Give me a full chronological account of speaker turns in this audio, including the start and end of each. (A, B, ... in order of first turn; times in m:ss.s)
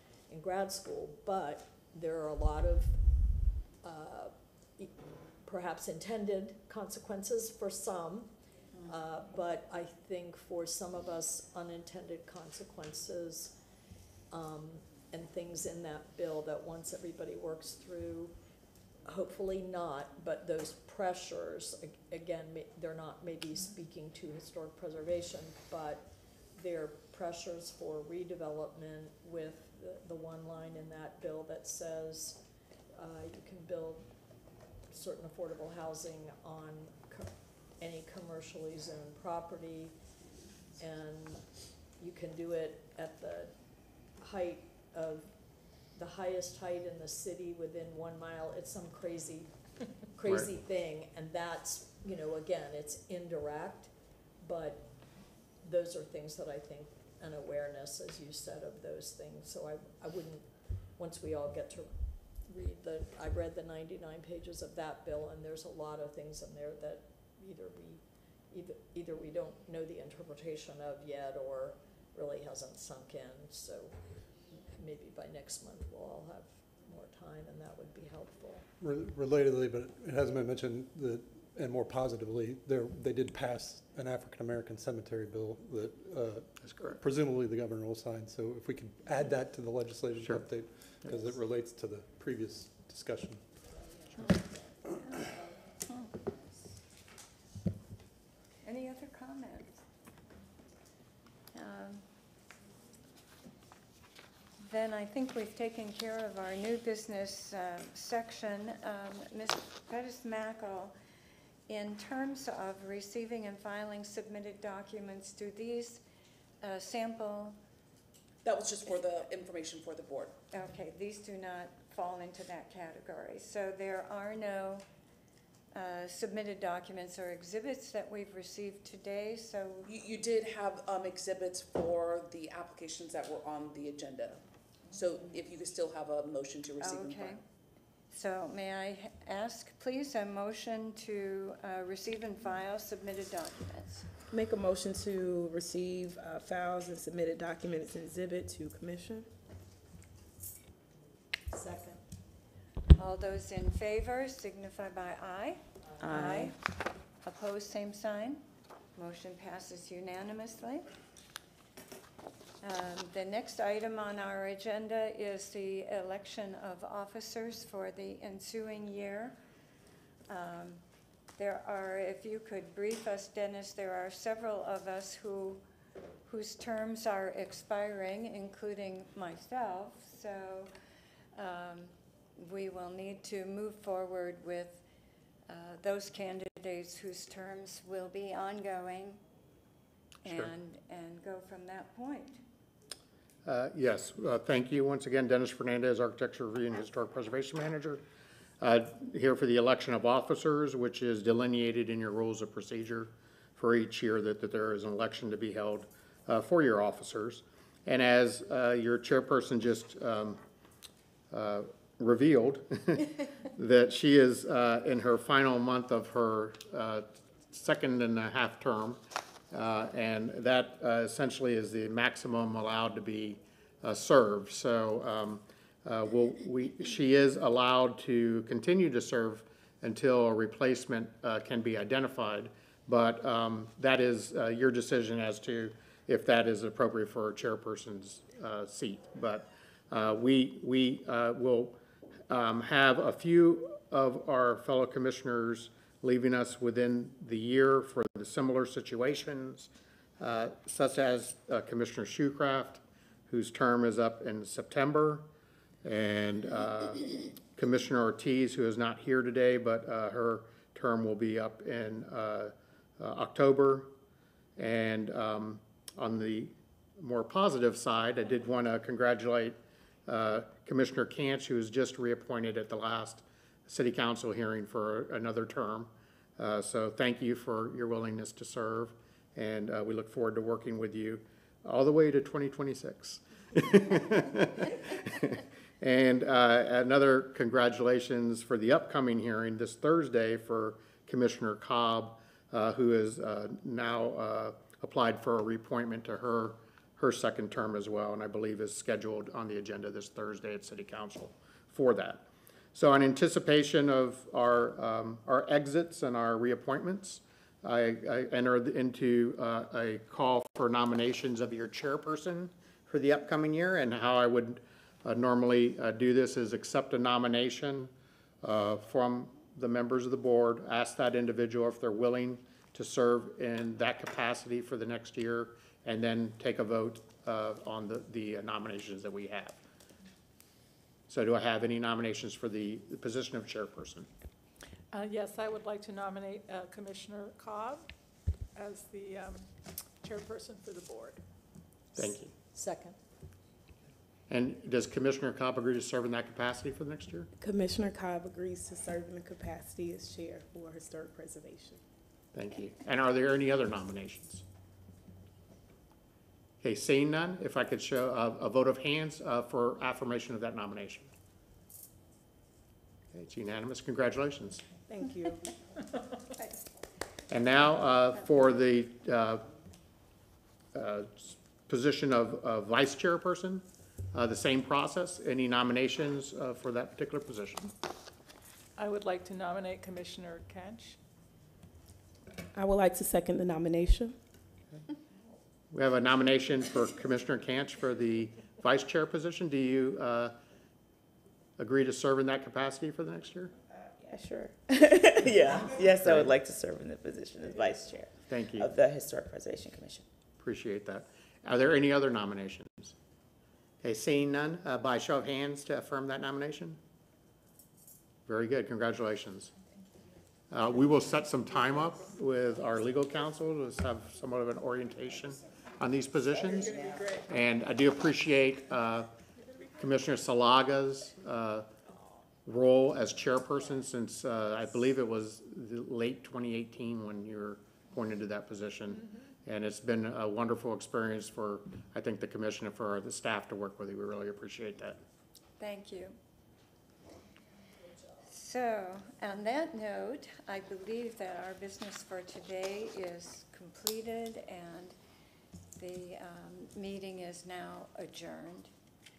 0:00.3-0:03.0 A
0:03.8-0:08.3 A
0:08.8-0:13.6 A
0:14.3-0:18.3 A
0:19.1-0:32.4 A
0:32.9-0:34.1 A
0:34.9-0:39.9 A
0:40.8-0:43.6 A
0:44.2-0:45.3 A
0:45.9-0:53.9 A
0:54.4-0:55.0 A
0:55.6-1:14.0 A
1:14.7-1:18.6 A
1:18.8-1:33.4 B
1:26.7-1:27.0 C
1:30.2-1:30.5 C
1:34.9-1:35.3 D
1:38.6-1:39.8 D
1:41.5-1:42.0 D
1:44.6-1:51.0 D
1:51.7-1:56.0 D
1:56.6-1:57.6 D
1:58.4-2:00.4 E
2:00.5-2:04.8 D
2:05.7-2:09.9 D
2:09.9-2:14.4 E
2:14.9-2:17.4 E
2:16.8-2:17.4 D
2:18.1-2:24.1 D
2:24.3-2:29.3 F
2:31.5-2:32.0 A
2:33.0-2:36.6 D
2:36.0-2:36.6 G
2:37.2-2:38.4 D
2:39.0-2:40.9 D
2:42.6-2:49.4 D
2:50.3-2:50.8 D
2:51.4-2:55.6 D
2:56.3-3:00.7 D
3:01.4-3:04.8 D
3:05.5-3:09.2 D
3:10.2-3:12.4 D
3:10.3-3:10.5 C
3:13.4-3:18.0 C
3:18.6-3:30.4 C
3:31.3-3:39.0 C
3:39.5-4:01.8 C
4:02.3-4:15.3 C
4:15.8-4:23.9 C
4:24.6-5:17.9 C
5:18.4-5:29.6 C
5:31.1-5:34.1 C
5:34.9-5:37.9 H
5:38.6-5:39.5 H
5:40.0-5:41.2 H
5:42.0-5:42.3 C
5:42.0-5:43.0 A
5:44.3-5:47.3 C
5:47.4-5:51.8 F
5:52.3-5:54.4 C
5:56.6-6:01.1 C
6:03.1-6:04.7 C
6:04.9-6:05.4 F
6:07.3-6:09.4 C
6:10.7-6:17.7 C
6:18.8-6:21.0 H
6:22.5-6:24.2 F
6:25.7-6:30.4 C
6:31.6-6:33.5 C
6:34.1-6:35.2 F
6:35.1-6:40.1 G
6:36.0-6:36.3 C
6:38.3-6:38.7 C
6:40.4-6:43.0 C
6:43.8-6:46.8 C
6:48.3-6:49.5 C
6:50.5-6:59.1 C
6:56.4-6:57.3 H
6:59.8-7:01.7 C
7:02.4-7:15.0 C
7:15.6-7:16.2 D
7:18.2-7:25.0 D
7:25.8-7:28.7 D